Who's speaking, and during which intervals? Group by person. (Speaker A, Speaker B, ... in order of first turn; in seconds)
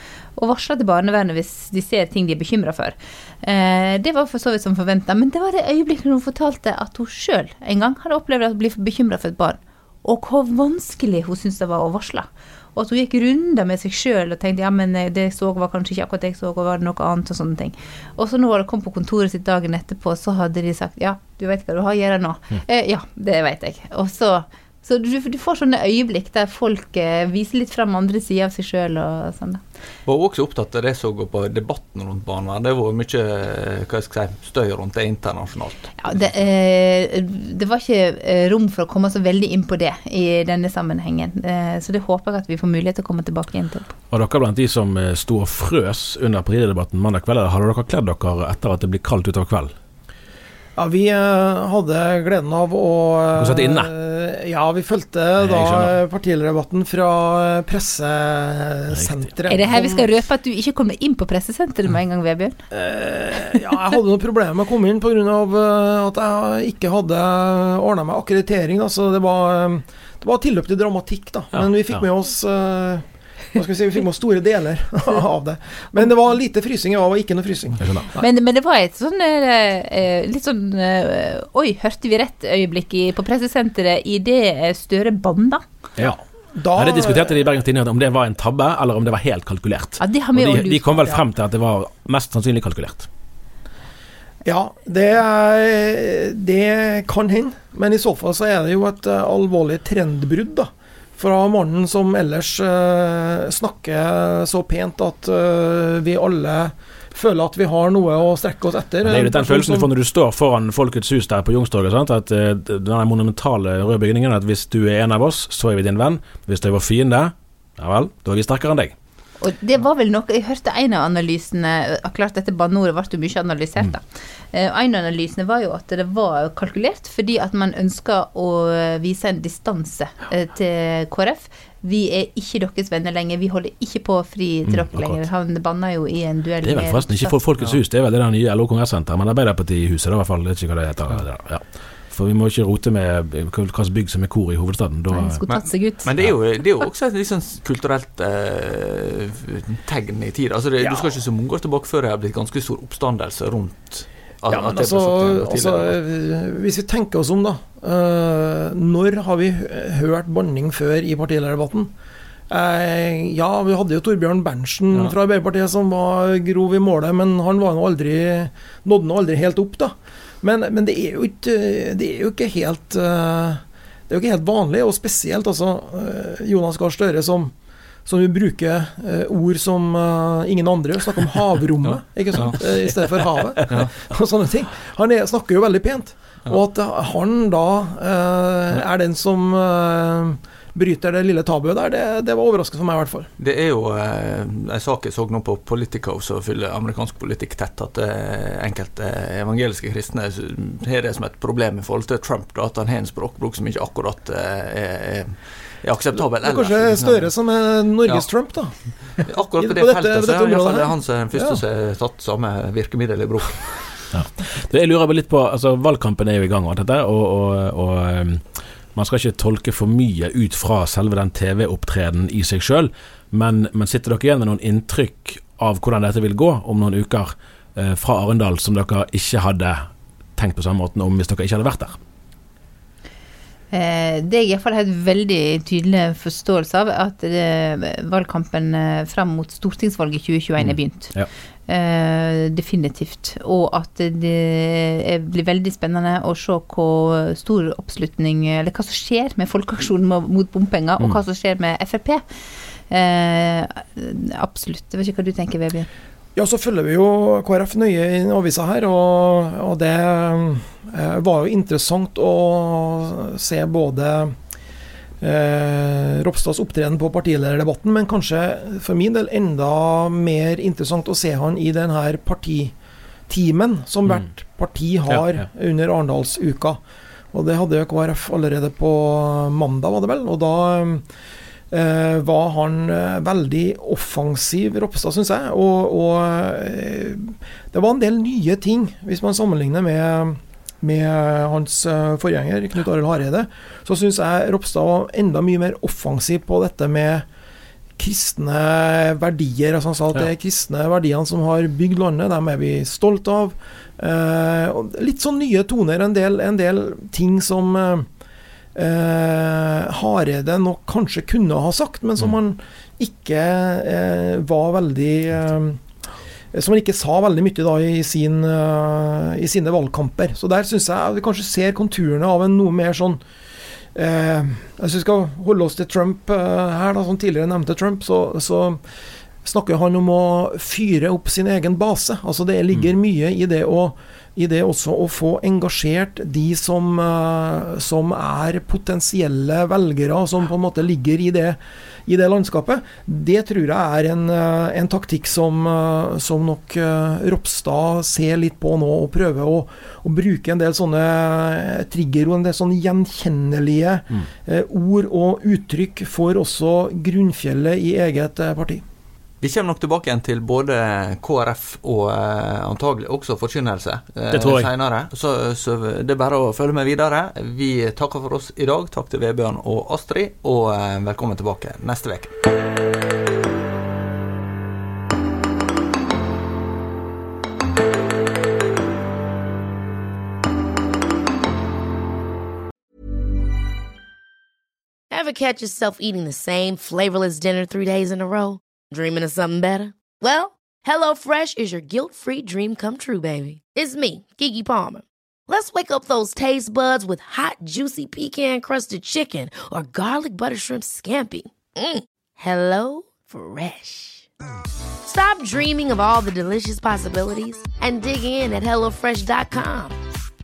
Speaker A: 0.4-29.6, 36.0-43.9, 59.5-62.6, 78.2-85.6, 90.0-91.2, 119.4-137.4, 145.1-146.1, 233.7-241.1, 241.7-252.2, 252.9-255.9
Speaker B: 30.1-35.9, 145.5-155.9, 181.9-182.6, 183.7-183.9, 193.4-207.3, 209.2-214.1, 359.4-372.4
Speaker C: 44.1-49.7, 53.4-53.9, 55.4-56.0, 58.9-59.3, 71.5-72.0, 77.8-78.2, 86.7-93.1, 109.0-119.0, 134.7-135.2, 136.6-145.4, 214.1-232.0, 240.6-241.3, 275.1-275.5, 364.3-364.7
Speaker D: 50.8-60.1, 62.7-77.9, 86.6-87.4, 94.5-109.9, 154.5-161.9, 162.5-177.5, 178.1-193.3, 206.4-208.9, 209.6-211.6, 256.4-264.4, 265.2-272.7, 273.3-276.8, 277.3-281.1, 281.7-297.2, 298.0-308.1, 308.8-315.8, 316.5-323.2, 323.9-328.8, 329.4-358.8
Speaker E: 385.1-404.3, 405.1-410.0